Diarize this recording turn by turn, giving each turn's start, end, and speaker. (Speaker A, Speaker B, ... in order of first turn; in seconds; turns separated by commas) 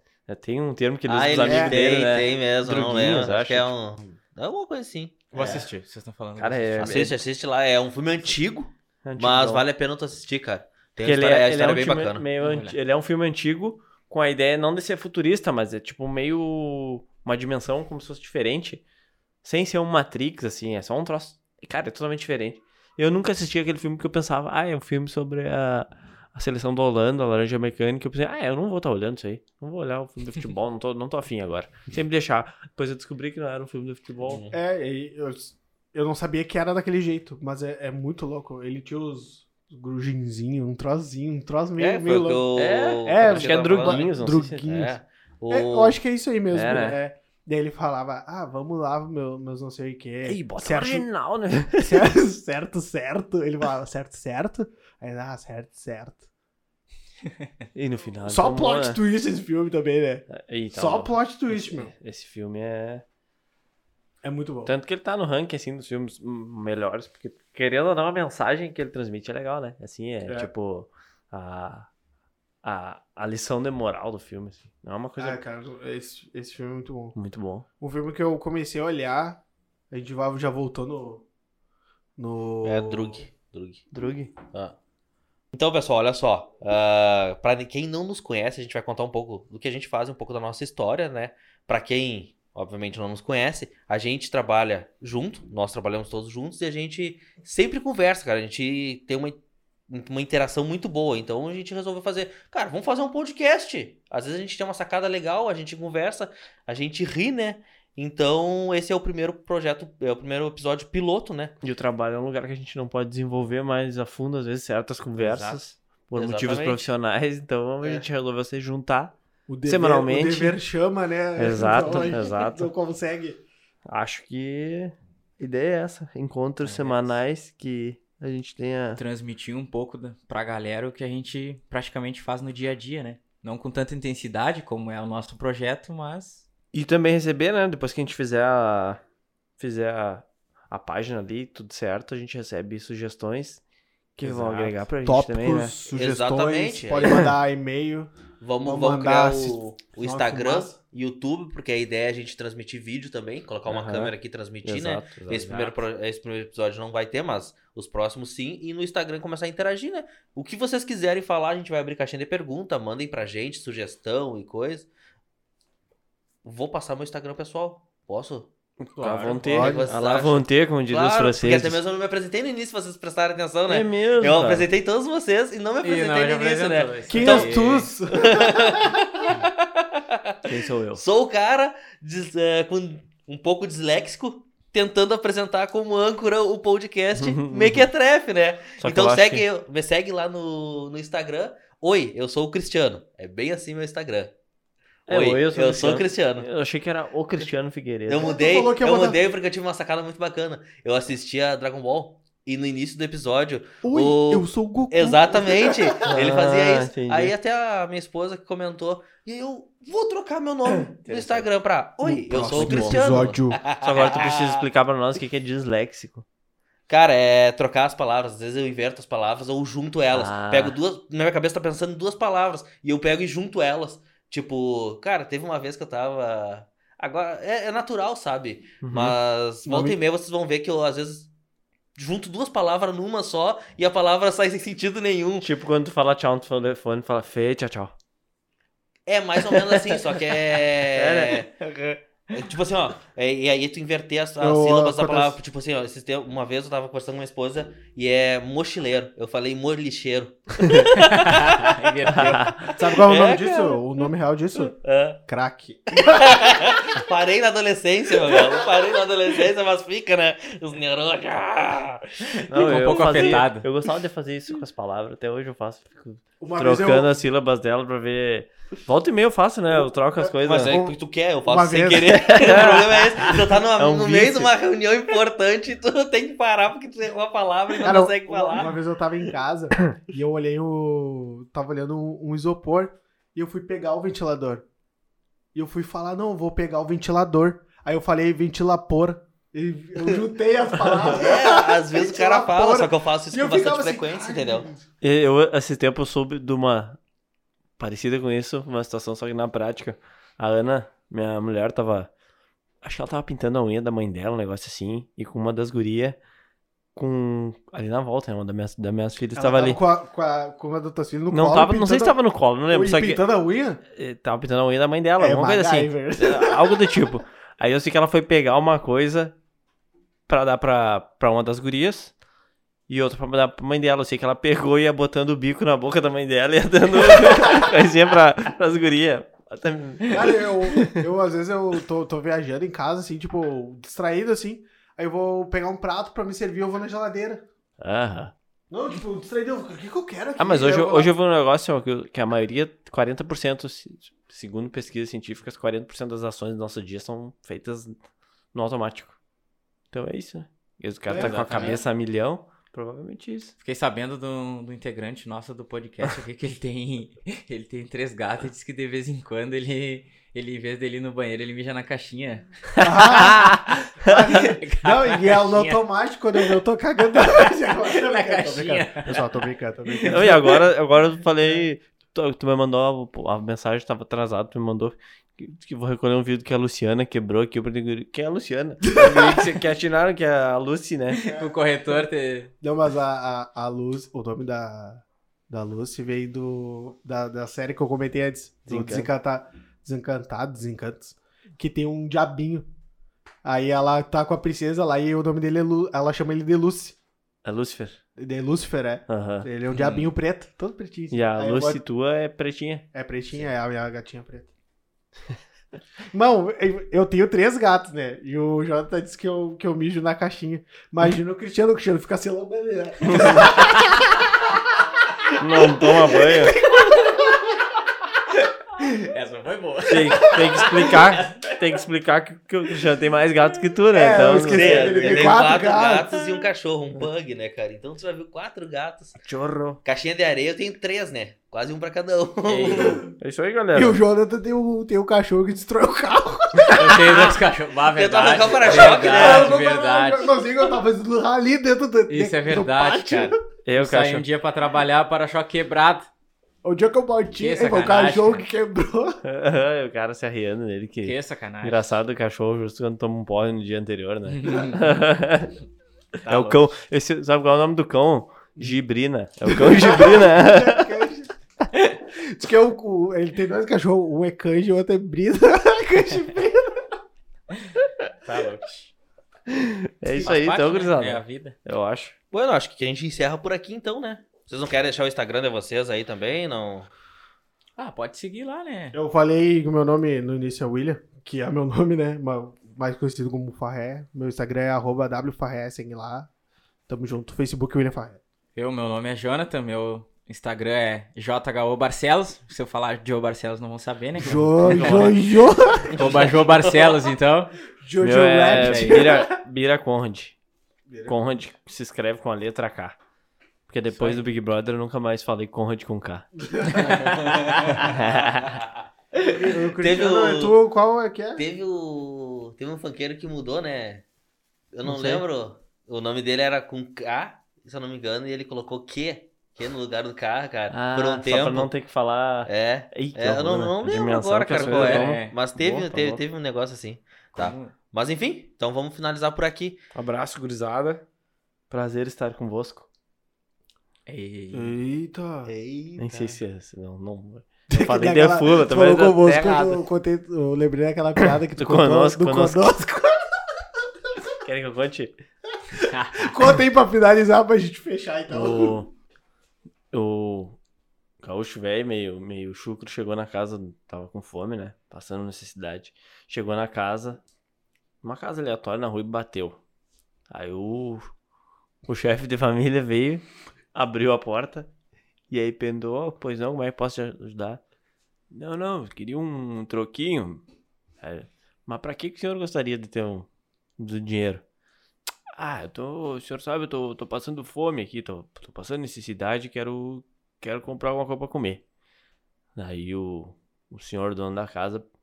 Speaker A: 0.3-3.7, Speaker B: 1.1-5.6, Speaker C: 1.4-1.8, Speaker D: 5.3-7.1, Speaker A: 6.4-7.2, Speaker B: 6.8-12.2, Speaker A: 9.0-9.6, Speaker A: 11.0-18.8, Speaker D: 12.4-12.8, Speaker A: 19.4-34.4, Speaker B: 34.2-34.6, Speaker C: 34.5-42.5, Speaker B: 41.8-44.1, Speaker A: 42.5-44.7, Speaker C: 43.0-45.0, Speaker B: 44.6-46.0, Speaker C: 45.5-51.0, Speaker A: 46.5-47.0, Speaker A: 50.2-52.1, Speaker C: 51.8-56.3, Speaker A: 57.7-59.0, Speaker C: 58.2-61.9, Speaker A: 60.3-63.0, Speaker C: 64.2-64.7, Speaker A: 64.6-71.9, Speaker A: 72.6-75.4, Speaker C: 75.2-77.2, Speaker A: 77.1-77.7, Speaker C: 77.8-79.4, Speaker C: 79.9-81.2, Speaker C: 82.2-83.2, Speaker B: 82.6-83.8, Speaker A: 83.9-84.3, Speaker B: 85.5-111.5, Speaker A: 111.6-120.6, Speaker D: 115.2-115.6, Speaker B: 116.1-116.9, Speaker C: 119.5-123.4, Speaker A: 121.3-122.7, Speaker A: 123.9-129.0, Speaker B: 126.7-127.0, Speaker D: 129.0-136.5, Speaker A: 136.7-139.0, Speaker A: 139.6-143.6, Speaker A: 144.2-145.8, Speaker C: 144.2-148.1, Speaker B: 145.9-147.2, Speaker B: 148.4-164.9, Speaker C: 148.6-150.8, Speaker A: 153.7-154.1, Speaker A: 154.6-155.8, Speaker B: 166.4-168.5, Speaker A: 168.8-171.8, Speaker D: 169.0-169.3, Speaker C: 169.2-169.8, Speaker B: 169.4-180.4, Speaker A: 173.7-174.7, Speaker D: 175.8-177.9, Speaker C: 177.1-179.1, Speaker A: 180.4-181.0, Speaker B: 180.9-194.3, Speaker A: 187.2-187.9, Speaker A: 188.8-189.4, Speaker B: 195.1-196.5, Speaker A: 195.1-198.3, Speaker B: 198.1-214.6, Speaker C: 198.1-199.2, Speaker C: 203.8-206.1, Speaker A: 206.0-207.3, Speaker A: 210.9-211.5, Speaker C: 212.0-213.6, Speaker A: 212.4-216.2, Speaker B: 216.9-231.3, Speaker A: 220.1-220.8, Speaker A: 228.8-229.2, Speaker C: 229.6-230.0, Speaker B: 231.9-235.5, Speaker A: 235.4-237.9, Speaker B: 239.1-241.5, Speaker A: 239.5-241.8, Speaker B: 242.3-253.8, Speaker C: 244.4-245.4, Speaker D: 251.0-252.4, Speaker A: 252.1-252.7, Speaker C: 252.7-256.9, Speaker B: 254.6-255.2, Speaker B: 255.9-263.2, Speaker D: 262.4-263.6, Speaker A: 262.5-270.8, Speaker C: 266.4-267.1, Speaker C: 270.2-273.2, Speaker B: 270.4-278.7, Speaker A: 272.1-274.5, Speaker C: 277.8-284.6, Speaker C: 285.5-294.8, Speaker B: 291.1-294.6, Speaker A: 295.0-297.0, Speaker A: 297.8-302.1, Speaker A: 302.8-306.2, Speaker A: 306.9-309.8, Speaker C: 309.3-312.1, Speaker A: 311.3-313.2, Speaker C: 312.7-313.8, Speaker A: 313.9-319.3, Speaker C: 315.2-317.0, Speaker A: 320.3-322.1, Speaker A: 322.9-331.0, Speaker C: 327.1-327.6, Speaker C: 330.1-337.4, Speaker A: 337.8-338.3, Speaker C: 338.7-341.1, Speaker A: 340.4-348.0, Speaker A: 348.5-349.2, Speaker A: 349.9-353.5, Speaker C: 351.1-351.8, Speaker D: 351.1-351.8, Speaker D: 353.6-362.8, Speaker C: 362.8-370.6, Speaker A: 362.8-364.3, Speaker D: 364.1-365.8, Speaker D: 366.4-369.2, Speaker D: 369.9-370.5, Speaker A: 370.0-381.2, Speaker C: 378.9-379.4, Speaker C: 381.2-381.5, Speaker D: 381.2-382.5, Speaker C: 382.6-392.6, Speaker A: 388.7-389.1, Speaker C: 393.4-397.0, Speaker A: 397.4-398.0, Speaker C: 398.2-401.8, Speaker A: 399.1-399.5, Speaker D: 399.7-400.1, Speaker A: 401.1-402.9, Speaker C: 402.9-404.5, Speaker C: 406.1-414.0, Speaker A: 413.1-413.5, Speaker C: 415.3-417.3, Speaker A: 415.4-416.6, Speaker D: 419.0-421.6, Speaker A: 419.9-425.1, Speaker C: 423.9-426.1, Speaker B: 424.4-429.2, Speaker A: 429.2-429.8, Speaker B: 429.8-433.0, Speaker D: 432.4-433.0, Speaker A: 433.2-434.0, Speaker C: 433.7-437.4, Speaker D: 436.7-440.7, Speaker B: 437.9-439.6, Speaker C: 438.6-443.4, Speaker D: 442.1-446.1, Speaker A: 443.6-444.2, Speaker C: 446.6-449.2, Speaker D: 447.4-448.4, Speaker A: 449.2-455.5, Speaker D: 451.0-451.9, Speaker D: 454.4-454.8, Speaker A: 456.2-460.9, Speaker D: 456.3-456.6, Speaker C: 459.5-466.9, Speaker D: 468.2-468.9, Speaker A: 469.5-472.1, Speaker D: 470.1-471.6, Speaker B: 472.3-476.9, Speaker D: 477.8-478.9, Speaker C: 478.9-486.3, Speaker C: 486.9-488.2, Speaker D: 488.5-495.2, Speaker C: 494.2-496.3, Speaker A: 494.7-495.2, Speaker D: 495.9-497.5, Speaker B: 496.0-496.2, Speaker C: 497.8-499.4, Speaker A: 498.0-500.3, Speaker D: 498.5-499.2, Speaker C: 500.9-501.2, Speaker A: 501.1-502.9, Speaker A: 503.7-506.2, Speaker D: 503.9-504.2, Speaker C: 506.4-507.6, Speaker D: 506.7-507.8, Speaker A: 507.7-508.6, Speaker B: 508.4-508.7, Speaker C: 509.1-511.4, Speaker B: 509.8-510.6, Speaker B: 511.4-514.0, Speaker B: 514.7-521.7, Speaker A: 514.8-515.2, Speaker A: 520.7-526.2, Speaker B: 522.5-529.8, Speaker D: 524.5-525.4, Speaker D: 527.3-527.7, Speaker A: 529.9-531.0, Speaker A: 531.7-532.9, Speaker D: 534.0-534.8, Speaker C: 534.5-535.5, Speaker B: 535.5-536.4, Speaker A: 536.0-539.8, Speaker C: 537.7-543.4, Speaker A: 541.2-542.7, Speaker A: 544.4-545.1, Speaker C: 545.7-548.8, Speaker D: 545.8-546.3, Speaker A: 548.3-548.9, Speaker A: 549.9-550.6, Speaker A: 551.2-557.2, Speaker A: 558.0-559.6, Speaker A: 560.3-561.1, Speaker A: 561.9-564.7, Speaker A: 565.3-567.6, Speaker A: 568.3-570.4, Speaker A: 571.0-573.3, Speaker A: 573.8-574.4, Speaker A: 575.4-581.6, Speaker A: 582.5-584.9